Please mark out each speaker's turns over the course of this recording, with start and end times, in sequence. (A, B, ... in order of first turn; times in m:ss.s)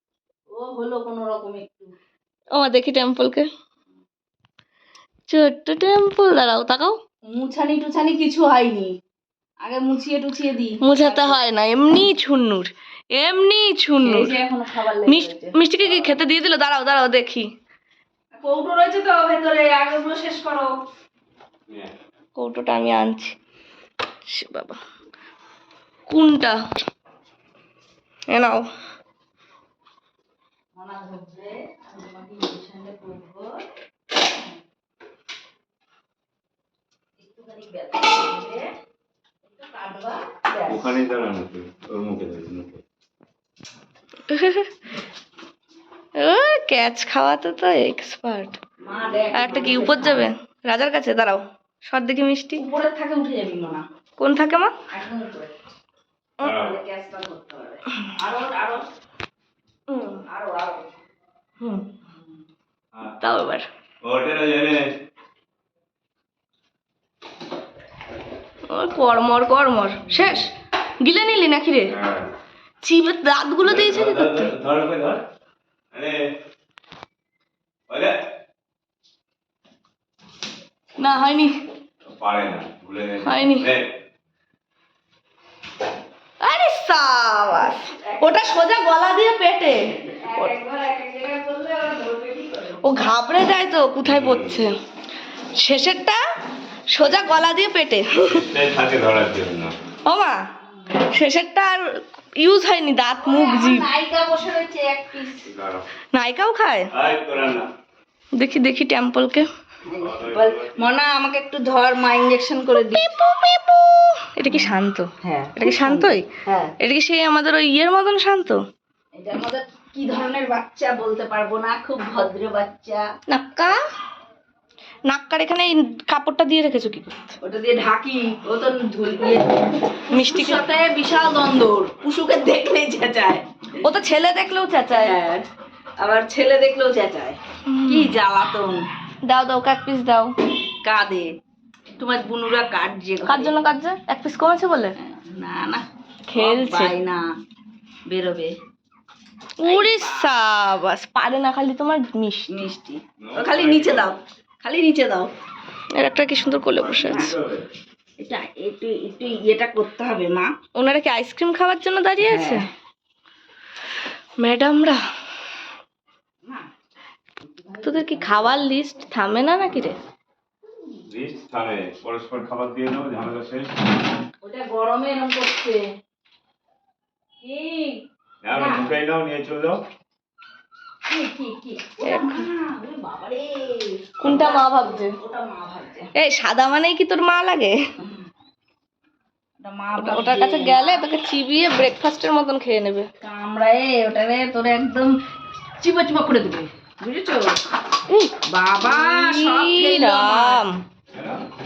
0:00.5-0:01.9 A
0:02.6-0:03.5 B
0:05.3-0:07.0 B
0:07.3-0:09.0 A
0:09.6-0:11.4 A
0:10.8-0:14.4 B
0:14.0-0:15.6 A
0:15.0-0:17.5 B
0:18.4-0:20.8 A
0:22.4-0:23.3 B
0:24.3-0:24.8 B
0:26.1-0:26.6 B
0:28.3-0:28.7 B
0:30.8-0:33.6 A
0:37.2-0:38.7 A
0:39.4-0:41.0 A
0:40.7-0:42.8 C
0:44.3-0:44.7 B
0:46.2-0:48.6 B
0:48.8-0:50.3 A
0:49.3-0:52.6 B
0:52.6-0:53.8 A
0:54.2-0:54.7 B
0:54.9-0:55.5 A
0:56.4-0:56.8 C
0:56.4-0:58.8 A
0:59.9-1:00.2 B
1:00.2-1:00.9 A
1:01.6-1:01.9 B
1:03.2-1:03.7 B
1:04.0-1:04.9 C
1:08.7-1:12.0 B
1:11.9-1:12.3 C
1:12.8-1:14.5 B
1:13.6-1:15.2 C
1:15.9-1:16.3 C
1:17.9-1:18.2 C
1:21.0-1:21.5 B
1:22.1-1:23.9 C
1:23.2-1:23.7 B
1:26.4-1:30.6 B
1:27.7-1:28.4 A
1:30.2-1:32.9 A
1:32.8-1:34.8 B
1:34.0-1:34.6 C
1:35.5-1:36.2 B
1:36.9-1:38.5 B
1:38.3-1:39.8 C
1:40.1-1:40.4 B
1:41.0-1:43.9 B
1:43.2-1:45.5 A
1:45.5-1:45.8 C
1:46.1-1:46.9 B
1:46.9-1:47.7 C
1:48.4-1:49.5 B
1:49.9-1:53.2 A
1:50.0-1:50.8 C
1:52.8-1:56.3 B
1:55.2-1:56.8 A
1:56.8-1:58.6 B
1:59.2-2:03.1 A
2:03.3-2:03.8 B
2:05.1-2:07.4 B
2:07.4-2:13.5 A
2:10.1-2:10.6 B
2:13.8-2:15.2 B
2:14.9-2:15.4 A
2:16.0-2:18.8 A
2:17.7-2:18.2 B
2:19.2-2:20.3 B
2:20.8-2:21.3 A
2:22.0-2:23.6 A
2:23.3-2:25.0 B
2:25.0-2:25.8 A
2:26.3-2:26.9 B
2:26.4-2:27.2 A
2:28.1-2:28.5 A
2:29.6-2:32.7 B
2:29.6-2:30.3 A
2:32.5-2:35.3 A
2:33.2-2:34.2 C
2:36.0-2:37.3 B
2:36.8-2:37.6 C
2:37.0-2:37.4 A
2:38.2-2:40.5 A
2:40.8-2:42.7 B
2:42.2-2:42.7 A
2:44.4-2:45.0 B
2:47.4-2:48.7 A
2:47.8-2:50.0 B
2:51.1-2:53.9 C
2:54.4-2:55.8 A
2:57.4-2:58.9 A
2:58.4-2:59.8 C
3:01.1-3:06.1 A
3:02.0-3:02.5 B
3:04.2-3:05.2 B
3:06.2-3:07.8 B
3:09.6-3:11.1 A
3:10.0-3:13.1 B
3:13.2-3:15.2 A
3:15.8-3:17.6 A
3:18.1-3:18.3 B
3:18.5-3:20.6 A
3:18.9-3:20.8 B